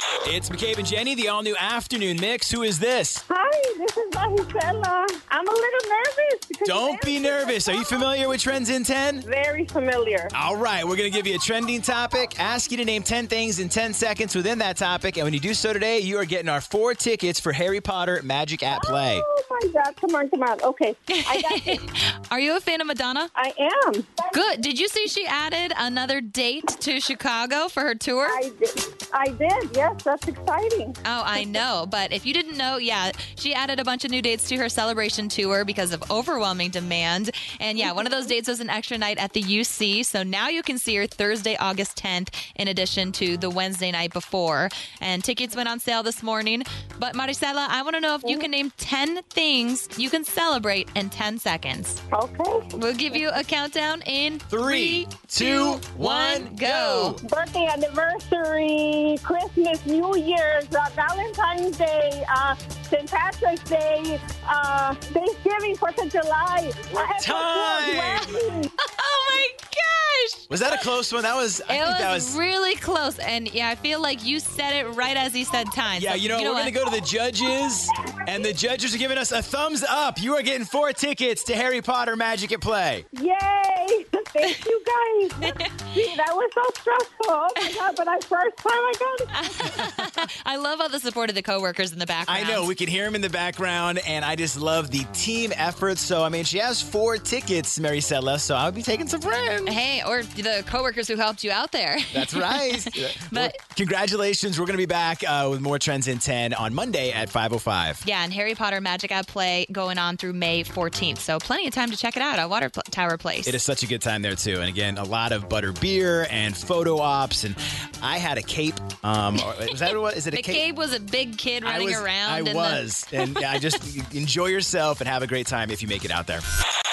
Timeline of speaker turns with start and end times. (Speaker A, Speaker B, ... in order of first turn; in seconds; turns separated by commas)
Speaker A: 0.2-3.2, Speaker B: 3.3-8.1, Speaker A: 6.6-9.2, Speaker B: 9.2-10.3, Speaker A: 10.3-19.3, Speaker B: 18.7-21.8, Speaker C: 21.1-23.3, Speaker B: 23.4-24.1, Speaker C: 24.3-28.4, Speaker B: 28.2-31.6, Speaker C: 31.0-52.0, Speaker B: 37.8-38.3, Speaker B: 52.1-52.7, Speaker C: 52.7-57.2, Speaker A: 54.5-57.2, Speaker B: 57.2-68.7, Speaker A: 67.0-68.4, Speaker C: 68.8-70.8, Speaker A: 70.5-72.4, Speaker C: 71.7-76.7, Speaker A: 75.9-83.0, Speaker B: 83.1-89.8, Speaker C: 85.4-85.8, Speaker C: 89.3-92.7, Speaker A: 92.3-99.8, Speaker C: 99.7-103.5, Speaker A: 102.1-108.0, Speaker C: 108.0-113.6, Speaker A: 113.4-120.6, Speaker C: 120.3-123.6, Speaker A: 121.6-126.4